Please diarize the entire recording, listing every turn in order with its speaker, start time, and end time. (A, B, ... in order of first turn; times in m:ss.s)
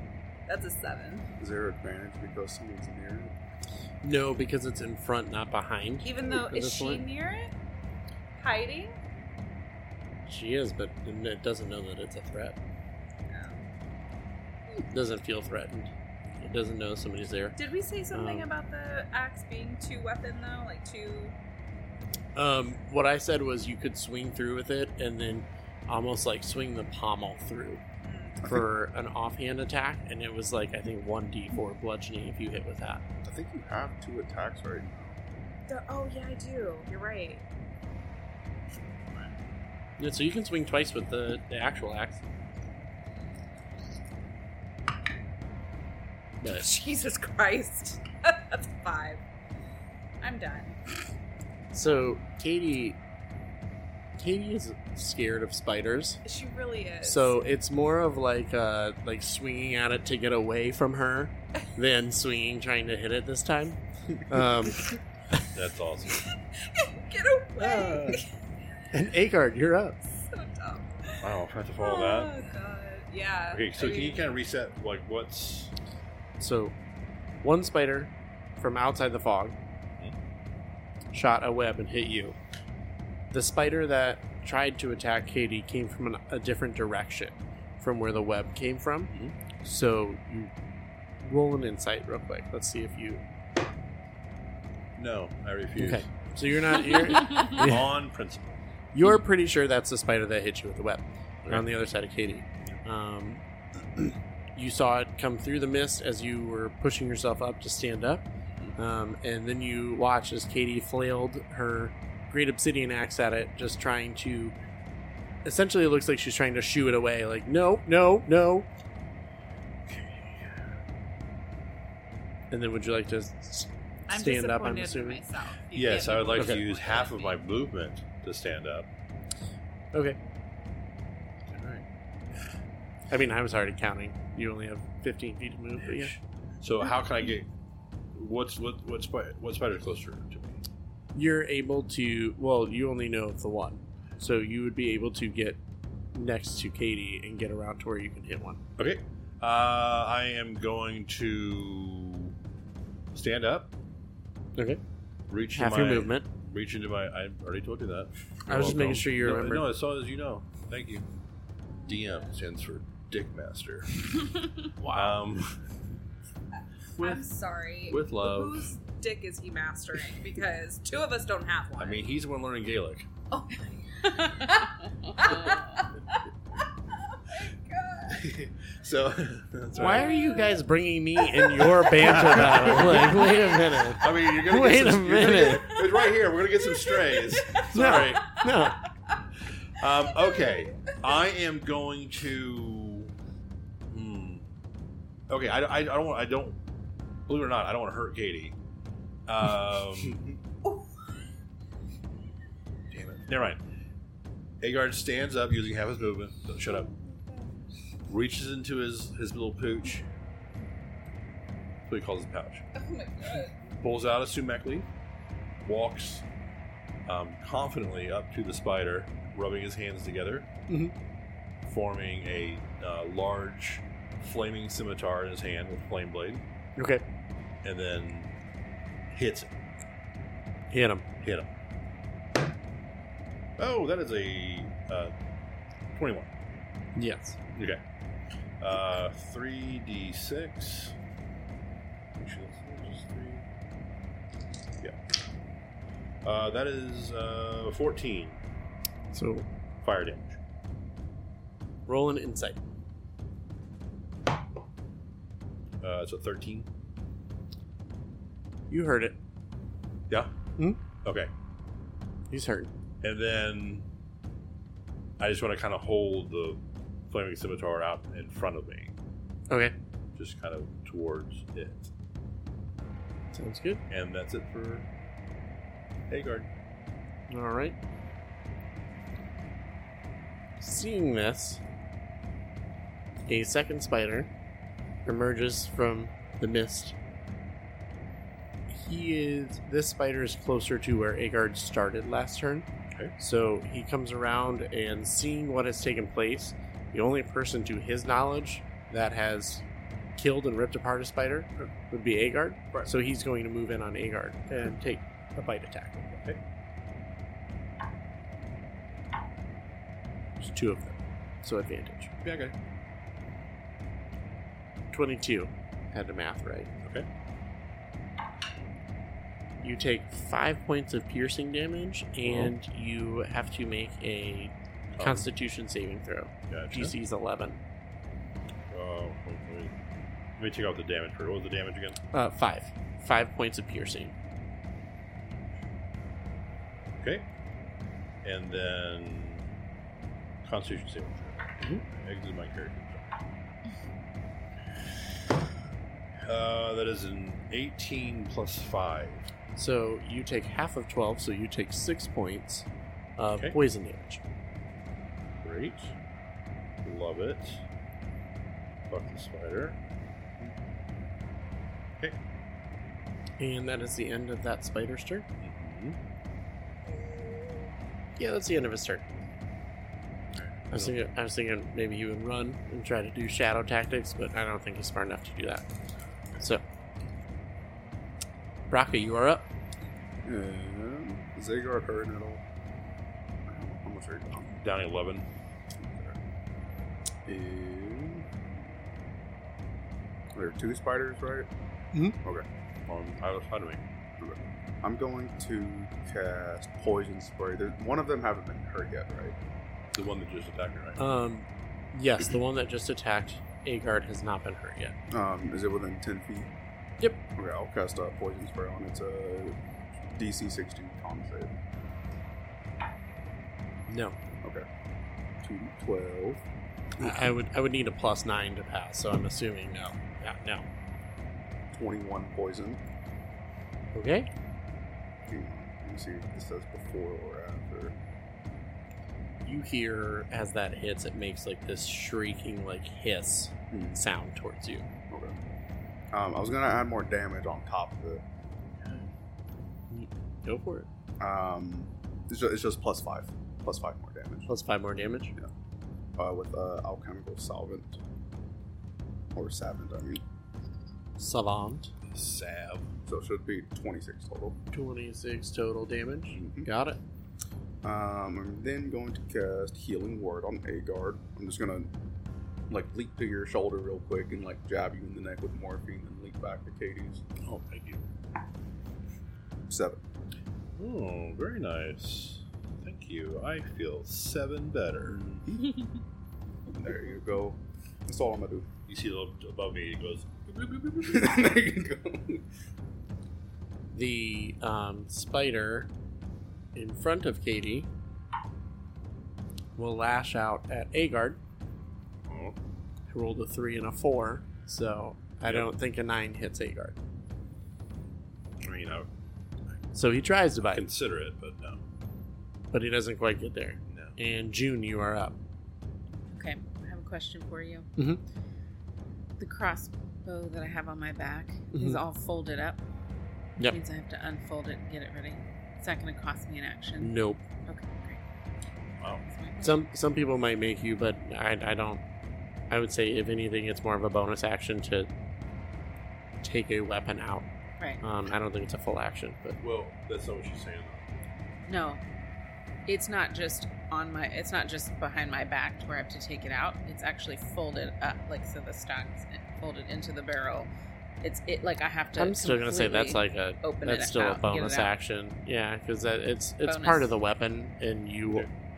0:00.5-0:01.3 A
0:01.4-0:03.4 B
0:04.0-0:07.0 C
0:06.0-0:07.5 A
0:08.4-0:09.0 A
0:10.3-0:12.6 C
0:13.3-0:13.6 A
0:14.9-0:18.5 C
0:17.6-0:21.4 A
0:22.4-0:27.8 C
0:28.0-0:28.5 A
0:28.4-0:33.0 C
0:33.2-0:35.2 B
0:35.7-0:37.4 A
0:40.0-0:42.2 C
0:46.4-0:49.2 A
0:50.2-0:50.8 A
0:51.7-0:53.0 C
0:54.2-0:56.2 C
0:56.2-0:57.4 A
0:57.0-1:05.5 C
1:05.5-1:06.3 D
1:06.2-1:08.3 A
1:07.6-1:08.2 D
1:08.9-1:10.0 C
1:10.2-1:14.3 A
1:11.2-1:12.4 D
1:13.5-1:15.7 D
1:16.4-1:16.8 C
1:17.4-1:19.6 C
1:21.1-1:22.4 C
1:23.3-1:29.1 C
1:29.6-1:30.5 C
1:31.2-1:33.2 C
1:35.0-1:36.1 D
1:35.8-1:37.9 C
1:36.9-1:37.5 E
1:37.2-1:38.6 D
1:38.9-1:43.4 C
1:44.0-1:48.2 C
1:48.8-1:54.6 C
1:55.4-1:58.7 C
1:59.9-2:00.5 D
2:02.5-2:05.2 C
2:04.1-2:07.5 A
2:05.7-2:08.9 D
2:06.4-2:06.6 C
2:09.9-2:10.2 C
2:11.5-2:11.8 D
2:13.1-2:16.2 C
2:15.8-2:17.5 D
2:18.2-2:20.6 D
2:21.2-2:25.6 C
2:26.1-2:28.6 C
2:28.8-2:32.3 D
2:33.1-2:33.7 D
2:35.3-2:41.0 D
2:35.5-2:36.3 C
2:38.5-2:39.7 C
2:41.8-2:42.3 A
2:41.9-2:45.6 D
2:44.8-2:45.2 C
2:47.0-2:52.1 A
2:47.0-2:47.2 D
2:47.9-2:48.7 D
2:51.8-2:53.1 D
2:53.3-2:56.2 A
2:54.0-2:55.9 E
2:56.9-2:58.3 A
2:58.1-3:00.6 D
2:59.8-3:05.8 C
2:59.9-3:00.5 A
3:01.2-3:01.8 A
3:01.7-3:08.4 D
3:02.6-3:03.9 A
3:05.6-3:08.5 A
3:07.7-3:08.8 C
3:09.5-3:13.1 D
3:10.2-3:11.0 A
3:13.9-3:14.5 D
3:15.3-3:16.6 D
3:17.3-3:18.6 D
3:19.3-3:20.3 D
3:22.9-3:23.6 D
3:24.6-3:26.9 D
3:26.6-3:27.5 A
3:28.1-3:30.0 D
3:31.9-3:32.7 D
3:32.8-3:33.6 A
3:33.8-3:34.9 D
3:35.6-3:36.2 D
3:37.1-3:40.5 D
3:41.7-3:46.4 D
3:46.8-3:47.0 C
3:47.6-3:48.3 D
3:49.1-3:49.5 D
3:50.7-3:51.1 C
3:51.2-3:51.5 D
3:53.6-3:55.1 D
3:55.9-3:56.3 D
3:57.0-3:57.4 C
3:57.6-3:57.8 D
3:58.6-4:01.0 D
4:02.2-4:03.5 D
4:06.2-4:08.4 D
4:09.1-4:09.5 C
4:09.8-4:10.4 D
4:11.9-4:12.6 C
4:15.8-4:16.7 D
4:18.7-4:19.2 C
4:21.0-4:21.3 D
4:22.3-4:22.7 C
4:23.0-4:23.9 D
4:25.2-4:28.9 D
4:30.2-4:31.9 D
4:33.3-4:33.8 C
4:33.9-4:34.9 D
4:36.1-4:36.5 D
4:37.3-4:37.8 C
4:40.6-4:41.6 C
4:43.3-4:44.3 C
4:45.1-4:47.0 C
4:48.7-4:59.6 C
5:00.2-5:06.2 C
5:10.4-5:12.1 C
5:12.2-5:12.6 D
5:14.9-5:16.7 C
5:19.6-5:27.6 C
5:22.2-5:22.5 D
5:24.9-5:25.3 D
5:26.5-5:26.9 D
5:28.7-5:29.7 D
5:30.4-5:32.0 D
5:32.1-5:34.2 C
5:35.2-5:35.5 D
5:37.0-5:37.3 D
5:38.2-5:39.4 D
5:40.4-5:43.1 D
5:46.3-5:49.3 D
5:49.6-5:52.7 C
5:53.2-5:54.2 C
5:55.4-5:55.9 D
5:56.8-5:57.6 D
5:58.9-5:59.8 D
6:03.4-6:05.3 C
6:05.4-6:06.0 D
6:08.2-6:09.1 C
6:10.3-6:11.0 D
6:10.7-6:15.6 C
6:18.7-6:19.5 C
6:20.2-6:22.4 B
6:23.5-6:24.5 B
6:24.5-6:25.3 D
6:25.8-6:26.2 B
6:27.3-6:28.4 B
6:30.3-6:31.5 B
6:32.9-6:33.8 D
6:34.2-6:39.4 B
6:39.9-6:41.0 D
6:41.0-6:44.9 C
6:45.1-6:46.5 B
6:47.4-6:49.6 B
6:50.1-6:51.5 B
6:53.9-6:54.2 C
6:55.4-6:56.4 B
6:57.0-6:57.3 B
6:57.0-7:00.7 C
7:01.7-7:02.8 B
7:03.9-7:04.3 C
7:05.3-7:08.0 B
7:09.4-7:14.9 C
7:13.7-7:14.0 B
7:15.1-7:15.4 B
7:16.1-7:18.2 B
7:19.9-7:20.9 C
7:21.2-7:24.5 B
7:24.5-7:25.3 C
7:26.2-7:28.0 B
7:29.3-7:30.2 B
7:31.2-7:31.9 C
7:32.1-7:32.9 D
7:33.1-7:34.6 B
7:34.7-7:37.0 C
7:36.3-7:36.7 B
7:37.8-7:41.9 B
7:42.7-7:47.2 B
7:47.4-7:48.0 D
7:49.7-7:50.0 B
7:50.8-7:55.2 D
7:55.1-7:55.8 B
7:56.7-7:58.7 B
7:58.9-8:01.3 D
8:01.0-8:02.4 B
8:03.9-8:05.9 C
8:06.7-8:07.9 C
8:09.8-8:11.4 C
8:12.3-8:12.6 D
8:13.1-8:17.0 C
8:15.4-8:15.7 D
8:18.6-8:19.1 D
8:19.9-8:20.9 C
8:20.6-8:21.8 D
8:22.7-8:25.4 C
8:23.9-8:24.2 D
8:26.3-8:27.9 E
8:29.4-8:32.8 E
8:31.7-8:32.0 C
8:33.6-8:38.2 E
8:37.0-8:37.4 C
8:39.3-8:39.8 E
8:39.6-8:42.0 C
8:42.7-8:45.1 C
8:46.4-8:47.5 C
8:48.0-8:49.6 C
8:49.6-8:51.0 D
8:51.7-8:52.0 E
8:52.9-9:00.7 E
9:01.2-9:04.9 E
9:02.2-9:08.5 C
9:06.6-9:07.1 E